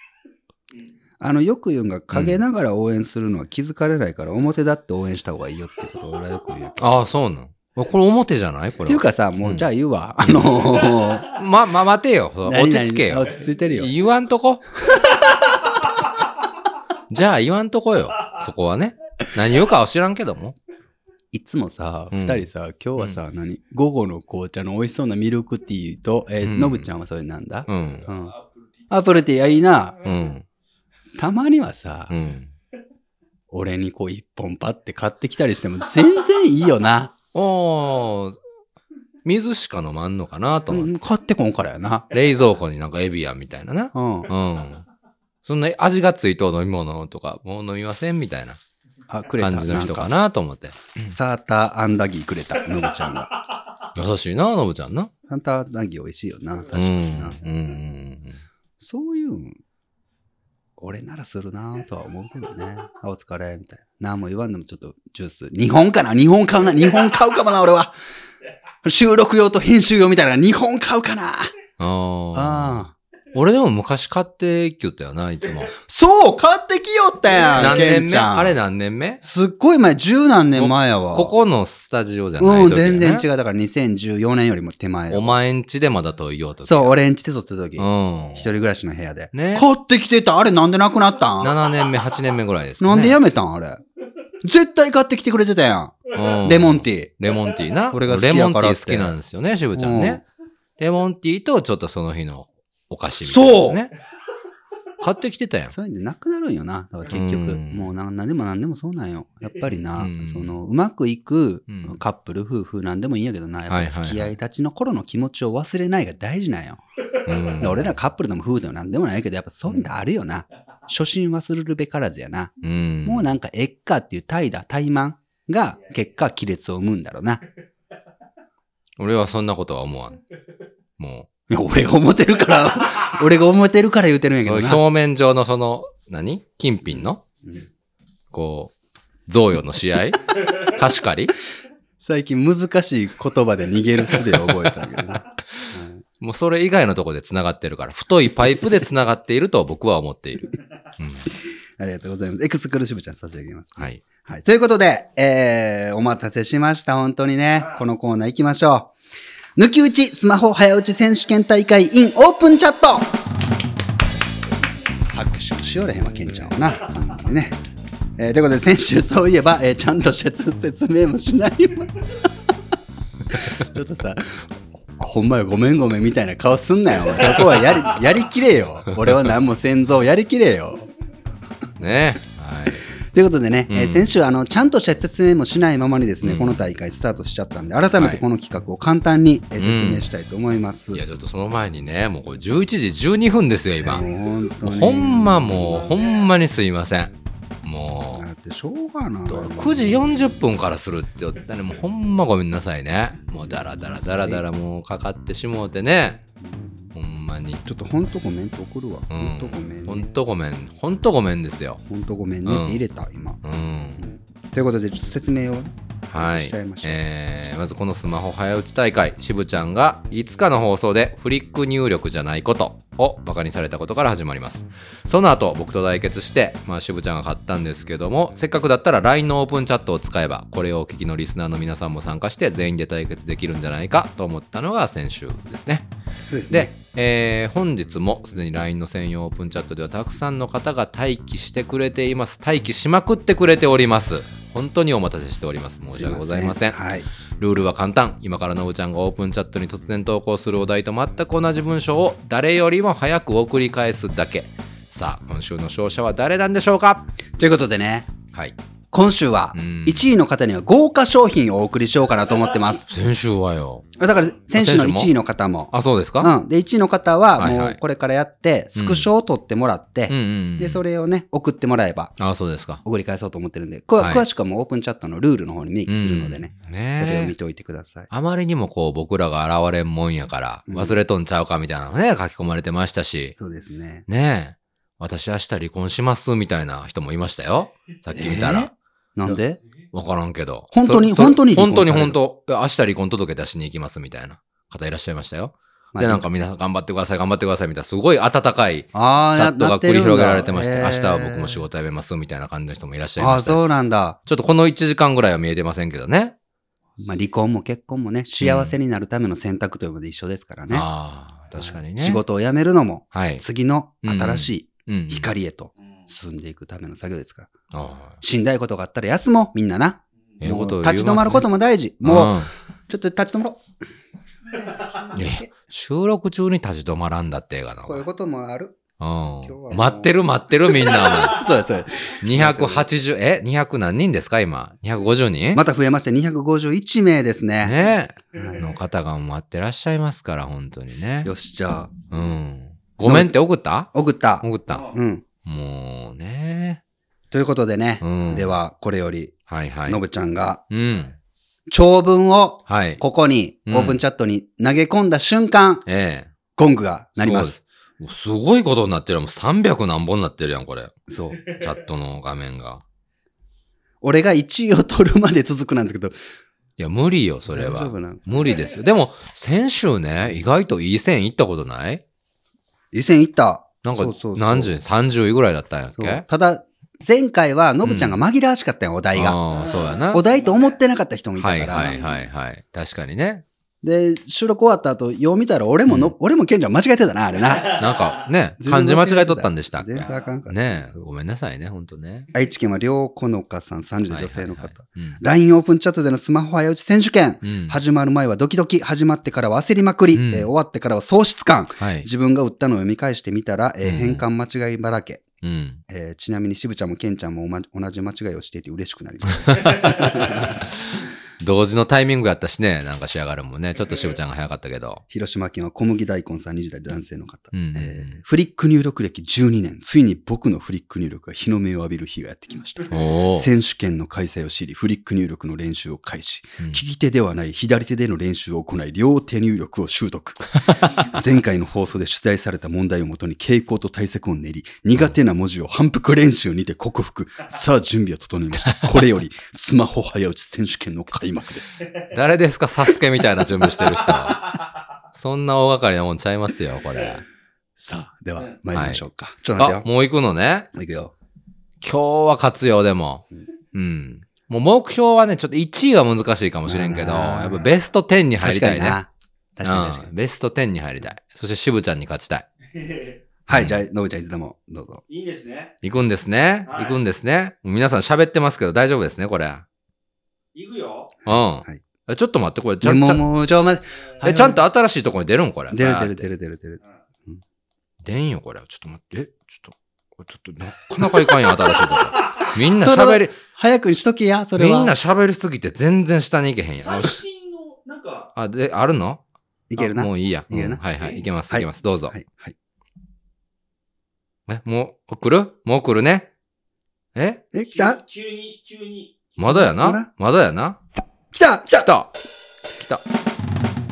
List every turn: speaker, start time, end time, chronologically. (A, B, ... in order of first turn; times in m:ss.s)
0:01.2-0:07.0 A
0:02.1-0:02.4 B
0:06.8-0:09.7 B
0:08.8-0:11.4 A
0:10.2-0:10.6 B
0:11.3-0:14.6 B
0:12.4-0:13.9 A
0:14.9-0:15.3 A
0:17.1-0:20.6 B
0:21.3-0:28.4 A
0:22.1-0:23.2 B
0:26.4-0:26.9 B
0:27.7-0:28.1 B
0:27.8-0:29.4 C
0:28.9-0:30.0 A
0:30.0-0:30.4 B
0:31.2-0:32.2 A
0:32.1-0:32.5 B
0:33.5-0:37.1 A
0:37.3-0:38.4 B
0:39.2-0:40.9 B
0:40.7-0:42.1 A
0:42.1-0:44.8 B
0:43.9-0:44.3 A
0:45.4-0:48.6 B
0:49.1-0:50.1 A
0:49.4-0:51.1 B
0:51.0-0:53.3 A
0:54.0-0:55.1 B
0:55.3-0:57.5 A
0:56.7-0:58.4 B
0:58.8-0:59.6 A
1:00.8-1:08.0 A
1:08.8-1:11.5 A
1:11.8-1:12.8 B
1:12.3-1:13.0 A
1:13.3-1:15.8 B
1:15.8-1:18.6 A
1:17.4-1:17.8 C
1:17.6-1:19.2 B
1:19.2-1:21.3 A
1:20.6-1:23.2 B
1:22.4-1:25.4 A
1:25.1-1:27.0 B
1:26.6-1:31.6 A
1:27.8-1:28.5 B
1:29.3-1:29.7 B
1:31.4-1:33.2 B
1:32.8-1:33.8 A
1:34.4-1:37.1 A
1:36.1-1:40.2 B
1:37.9-1:39.2 A
1:39.8-1:40.2 A
1:40.8-1:43.9 B
1:43.2-1:43.8 A
1:45.0-1:45.7 B
1:45.7-1:56.8 A
1:47.1-1:47.9 B
1:49.7-1:50.6 B
1:51.7-1:52.0 B
1:53.7-1:54.4 B
1:57.3-1:58.0 B
1:57.6-2:07.4 A
2:02.6-2:03.3 B
2:09.0-2:10.2 B
2:11.0-2:11.3 B
2:11.5-2:14.8 A
2:14.4-2:17.2 B
2:17.0-2:17.7 A
2:18.3-2:18.7 B
2:19.3-2:21.4 B
2:22.0-2:26.0 A
2:24.1-2:31.3 B
2:31.8-2:38.9 A
2:33.8-2:34.0 B
2:37.6-2:37.8 C
2:39.6-2:43.1 A
2:45.1-2:47.6 A
2:48.2-2:51.9 A
2:53.3-3:00.9 A
3:01.8-3:02.9 B
3:02.9-3:11.0 A
3:03.7-3:04.1 B
3:06.2-3:06.6 B
3:08.0-3:08.2 B
3:09.6-3:10.1 B
3:10.9-3:14.0 B
3:13.8-3:15.9 A
3:14.6-3:18.2 B
3:15.6-3:16.3 C
3:18.1-3:20.4 A
3:19.3-3:26.2 B
3:23.5-3:24.4 A
3:26.4-3:26.9 A
3:27.0-3:27.6 B
3:27.6-3:30.1 A
3:29.1-3:31.8 B
3:31.9-3:33.4 A
3:32.4-3:32.8 B
3:33.4-3:34.0 B
3:34.0-3:37.0 A
3:36.1-3:55.9 B
3:56.3-3:56.7 A
3:56.5-4:17.1 B
4:05.9-4:07.1 A
4:17.4-4:18.1 A
4:18.9-4:22.9 A
4:19.5-4:20.1 B
4:22.9-4:23.9 B
4:24.0-4:32.2 A
4:24.5-4:25.1 B
4:25.7-4:26.3 B
4:27.4-4:27.8 B
4:28.8-4:29.1 B
4:30.1-4:30.8 B
4:32.2-4:32.8 B
4:32.8-4:38.1 A
4:34.0-4:34.2 B
4:35.9-4:37.4 B
4:38.1-4:43.4 B
4:40.7-4:41.0 A
4:43.4-4:44.1 A
4:44.1-4:48.7 B
4:48.1-4:49.6 A
4:49.9-5:03.6 B
4:50.7-4:52.2 A
4:55.9-4:56.2 A
4:58.9-5:01.6 A
5:03.2-5:04.2 A
5:04.3-5:06.4 B
5:07.0-5:07.2 C
5:07.0-5:10.9 A
5:08.4-5:08.7 B
5:10.7-5:12.2 B
5:11.6-5:17.5 A
5:13.1-5:13.4 B
5:14.0-5:15.3 B
5:15.8-5:16.1 C
5:17.7-5:18.2 B
5:18.2-5:23.6 A
5:20.4-5:21.5 B
5:22.0-5:22.5 B
5:24.5-5:25.5 A
5:24.6-5:25.0 C
5:25.2-5:28.1 B
5:27.8-5:28.8 A
5:29.0-5:31.5 B
5:29.4-5:32.9 A
5:30.9-5:31.5 C
5:32.2-5:35.6 B
5:35.5-5:37.8 A
5:37.6-5:41.3 B
5:38.3-5:38.7 A
5:41.2-5:42.0 A
5:42.1-5:43.9 B
5:43.0-5:43.4 A
5:43.9-5:45.2 A
5:44.4-5:44.9 B
5:44.7-5:45.0 C
5:45.4-5:46.8 B
5:47.3-5:49.4 A
5:48.0-5:48.6 B
5:49.5-5:50.0 B
5:49.9-5:50.6 A
5:50.7-5:51.1 B
5:51.7-5:55.8 A
5:52.7-5:53.0 B
5:53.7-5:54.0 B
5:55.9-5:56.3 B
5:56.6-5:57.6 A
5:57.2-6:02.8 B
6:01.1-6:01.4 A
6:04.0-6:06.2 A
6:06.8-6:12.0 B
6:07.5-6:08.6 A
6:12.9-6:14.8 A
6:13.8-6:16.2 B
6:16.0-6:19.4 A
6:17.8-6:18.2 B
6:19.1-6:20.2 B
6:19.5-6:20.8 C
6:20.1-6:22.0 A
6:21.4-6:23.4 B
6:21.7-6:22.2 C
6:23.8-6:27.8 A
6:25.9-6:26.1 B
6:27.4-6:28.2 C
6:27.8-6:32.3 B
6:28.6-6:31.1 A
6:30.0-6:30.4 C
6:32.3-6:45.2 A
6:34.1-6:35.2 B
6:37.4-6:37.8 B
6:40.1-6:40.5 B
6:41.8-6:42.1 B
6:43.8-6:44.2 B
6:45.4-6:45.8 B
6:45.9-6:50.6 A
6:49.5-6:55.0 B
6:55.1-7:21.9 A
6:57.5-6:58.2 B
7:02.9-7:03.5 B
7:18.7-7:19.1 B
7:21.9-7:22.1 C
7:22.1-7:24.5 B
7:23.6-7:24.7 C
7:25.1-7:27.2 B
7:27.8-7:29.9 A
7:28.7-7:29.0 B
7:29.6-7:30.7 B
7:30.7-7:31.1 A
7:31.8-7:39.0 B
7:36.7-7:37.7 A
7:38.4-7:40.1 A
7:39.6-7:42.5 B
7:42.7-7:43.2 C
7:43.5-7:45.0 A
7:43.5-7:43.8 B
7:45.1-7:45.8 C
7:45.8-7:49.6 B
7:46.7-7:47.0 C
7:50.5-7:51.2 C
7:51.3-7:51.8 A
7:51.3-7:53.2 B
7:52.8-7:54.6 A
7:54.2-7:56.3 B
7:55.7-7:57.4 A
7:58.0-8:03.4 B
8:02.2-8:02.5 C
8:02.4-8:05.0 A
8:04.6-8:07.2 B
8:06.8-8:08.3 C
8:08.4-8:09.2 B
8:09.7-8:10.8 A
8:09.8-8:12.2 B
8:11.0-8:11.2 C
8:11.5-8:12.6 A
8:14.5-8:16.3 B
8:17.2-8:17.4 B
8:17.5-8:18.0 A
8:17.6-8:19.4 C
8:19.4-8:20.8 B
8:19.4-8:20.1 A
8:21.3-8:21.9 A
8:21.7-8:22.1 B
8:22.8-8:23.0 B